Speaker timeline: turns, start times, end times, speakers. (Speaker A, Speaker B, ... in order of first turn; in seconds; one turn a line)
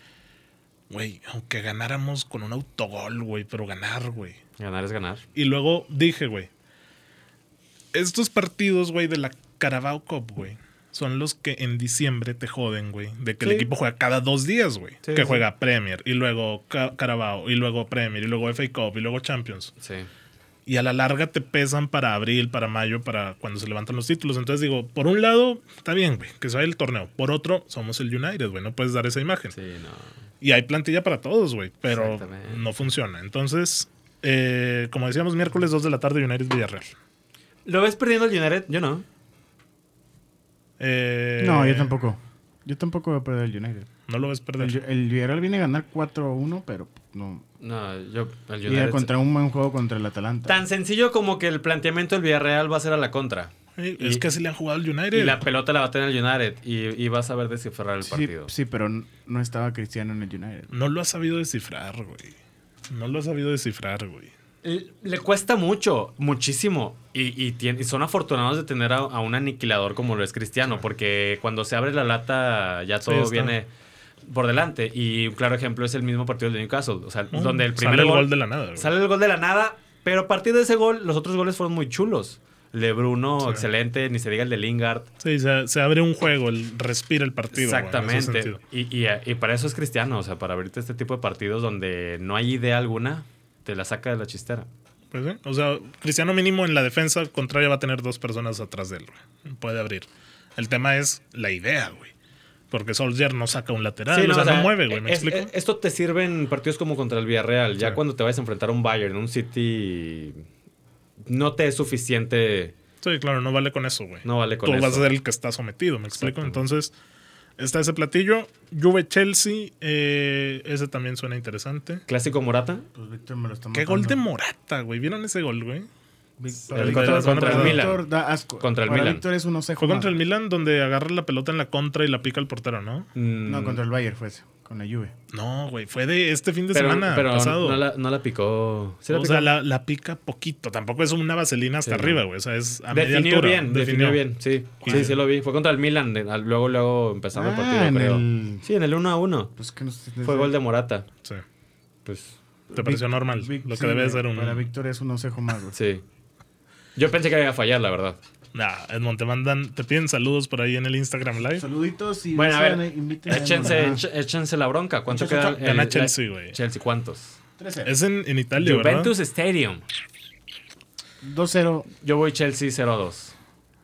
Speaker A: 0.9-4.4
Speaker B: 4.6-5.2
Speaker A: 5.3-6.5
Speaker A: 7.9-19.7
Speaker B: 13.4-13.7
Speaker B: 15.0-15.4
Speaker B: 19.8-20.1
Speaker A: 20.7-29.5
Speaker B: 29.5-30.1
Speaker A: 30.4-36.9
Speaker B: 31.9-32.7
Speaker B: 37.6-39.0
Speaker A: 40.8-41.9
Speaker C: 41.4-43.9
Speaker A: 44.1-44.8
Speaker C: 44.6-47.4
Speaker B: 47.6-49.1
Speaker C: 48.6-50.6
Speaker B: 50.5-54.2
Speaker A: 53.8-55.5
Speaker B: 55.1-58.5
Speaker C: 58.0-60.7
Speaker A: 60.7-62.3
Speaker A: 62.9-64.3
Speaker B: 64.6-73.7
Speaker A: 73.0-73.5
Speaker B: 74.2-85.1
Speaker A: 77.3-78.9
Speaker A: 83.4-83.7
Speaker A: 85.2-88.6
Speaker B: 87.5-94.7
Speaker A: 95.1-102.1
Speaker A: 102.7-105.5
Speaker B: 104.1-110.4
Speaker B: 111.2-112.7
Speaker A: 113.0-116.9
Speaker B: 114.2-115.1
Speaker B: 116.2-116.6
Speaker A: 117.6-122.0
Speaker B: 122.1-122.8
Speaker C: 122.9-124.2
Speaker A: 123.7-125.9
Speaker C: 126.4-130.2
Speaker A: 126.5-127.8
Speaker B: 126.7-128.0
Speaker B: 128.6-129.2
Speaker A: 129.8-133.1
Speaker B: 133.1-133.8
Speaker C: 133.4-135.1
Speaker A: 135.3-137.8
Speaker B: 136.7-139.5
Speaker A: 139.1-144.2
Speaker B: 141.8-142.2
Speaker B: 142.9-149.5
Speaker A: 144.8-145.2
Speaker C: 147.3-148.7
Speaker C: 149.6-150.5
Speaker B: 150.2-151.1
Speaker B: 152.0-152.3
Speaker C: 152.7-155.8
Speaker A: 152.7-154.7
Speaker B: 155.7-156.0
Speaker B: 156.9-158.2
Speaker A: 158.5-161.7
Speaker C: 161.5-164.0
Speaker B: 162.3-167.4
Speaker C: 165.1-165.6
Speaker A: 165.3-166.6
Speaker C: 167.6-167.9
Speaker A: 167.8-169.1
Speaker B: 168.6-169.8
Speaker C: 171.2-171.9
Speaker B: 172.0-173.3